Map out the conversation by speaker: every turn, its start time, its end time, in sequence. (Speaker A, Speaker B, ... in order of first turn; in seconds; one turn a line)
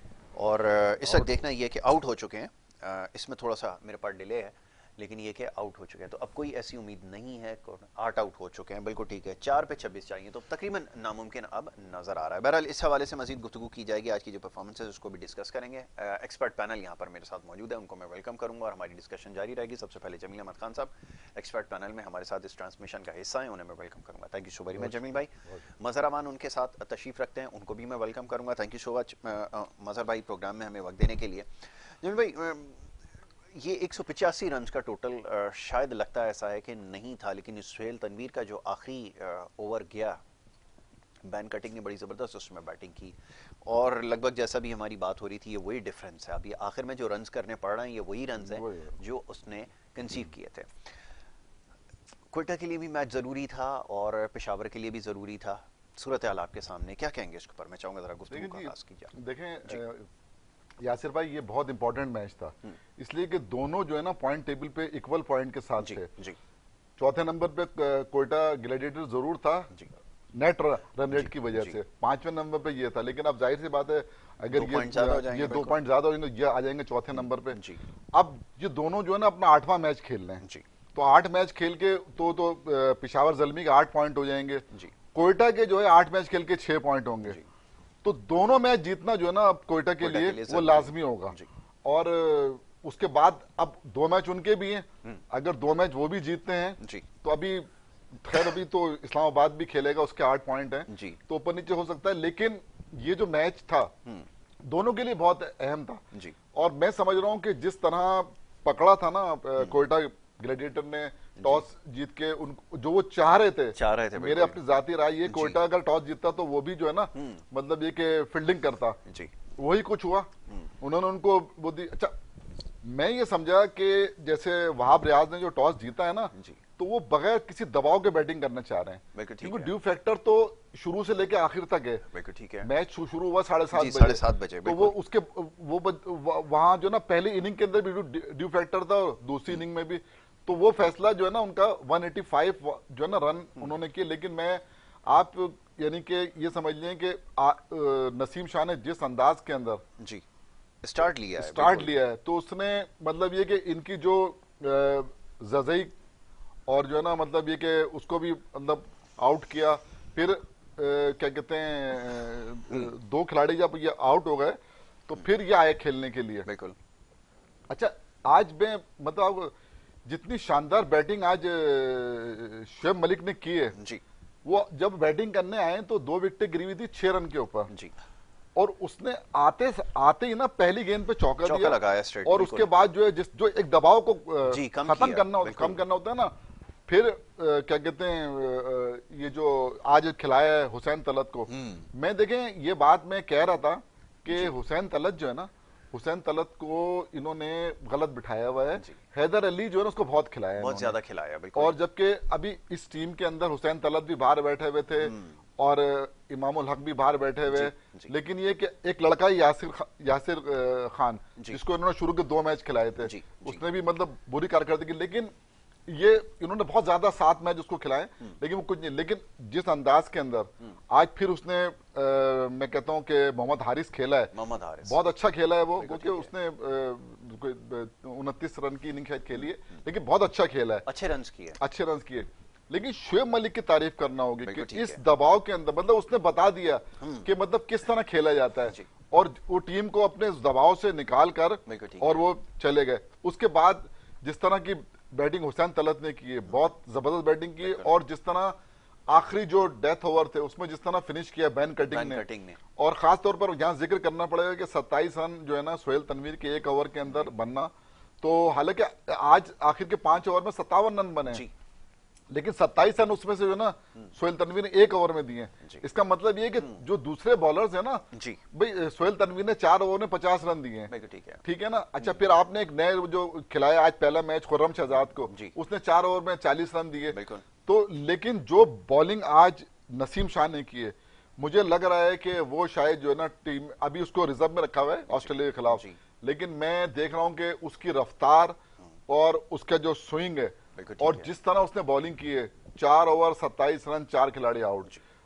Speaker A: 0.3-32.9
Speaker B: 24.8-25.6
Speaker A: 33.5-40.2
Speaker A: 41.2-50.9
Speaker B: 48.4-49.0
Speaker A: 52.3-59.1
Speaker B: 58.3-60.1
Speaker B: 60.8-66.1
Speaker A: 65.8-66.4
Speaker B: 67.0-69.7
Speaker B: 70.3-77.6
Speaker A: 71.1-71.8
Speaker A: 74.5-75.8
Speaker A: 77.5-77.8
Speaker B: 78.1-80.4
Speaker B: 81.0-87.4
Speaker B: 88.0-103.9
Speaker A: 90.0-91.5
Speaker A: 96.8-97.1
Speaker A: 100.9-101.2
Speaker B: 104.6-106.0
Speaker B: 106.5-119.0
Speaker A: 111.4-111.6
Speaker A: 113.8-114.6
Speaker A: 115.3-115.6
Speaker A: 117.2-117.4
Speaker A: 119.1-119.3
Speaker B: 119.6-122.2
Speaker A: 120.5-120.7
Speaker B: 122.8-132.0
Speaker A: 126.3-126.6
Speaker A: 129.2-129.7
Speaker A: 132.1-132.7
Speaker B: 132.6-149.8
Speaker A: 133.7-135.0
Speaker A: 150.0-150.2
Speaker A: 150.8-151.9
Speaker B: 151.4-155.9
Speaker B: 156.7-166.5
Speaker A: 166.5-166.8
Speaker B: 167.7-169.5
Speaker B: 170.1-173.8
Speaker B: 174.4-177.7
Speaker B: 178.6-186.3
Speaker A: 181.4-182.7
Speaker A: 184.5-185.8
Speaker B: 186.9-201.0
Speaker A: 191.5-191.9
Speaker A: 198.7-199.0
Speaker A: 200.6-201.8
Speaker B: 201.6-215.3
Speaker A: 205.0-205.4
Speaker A: 207.5-208.1
Speaker A: 213.0-213.6
Speaker B: 215.9-224.3
Speaker A: 224.3-225.1
Speaker B: 224.8-230.8
Speaker A: 225.8-226.3
Speaker A: 230.9-231.6
Speaker B: 231.6-248.6
Speaker A: 234.4-235.0
Speaker A: 237.0-237.3
Speaker A: 241.7-242.2
Speaker A: 247.6-247.9
Speaker B: 249.1-252.2
Speaker A: 251.8-252.6
Speaker B: 252.8-261.4
Speaker A: 257.1-257.3
Speaker B: 262.3-270.9
Speaker A: 266.6-266.8
Speaker A: 268.1-268.4
Speaker A: 270.9-271.4
Speaker B: 271.4-294.9
Speaker A: 275.3-275.5
Speaker A: 277.1-277.5
Speaker A: 285.1-286.0
Speaker A: 290.8-291.3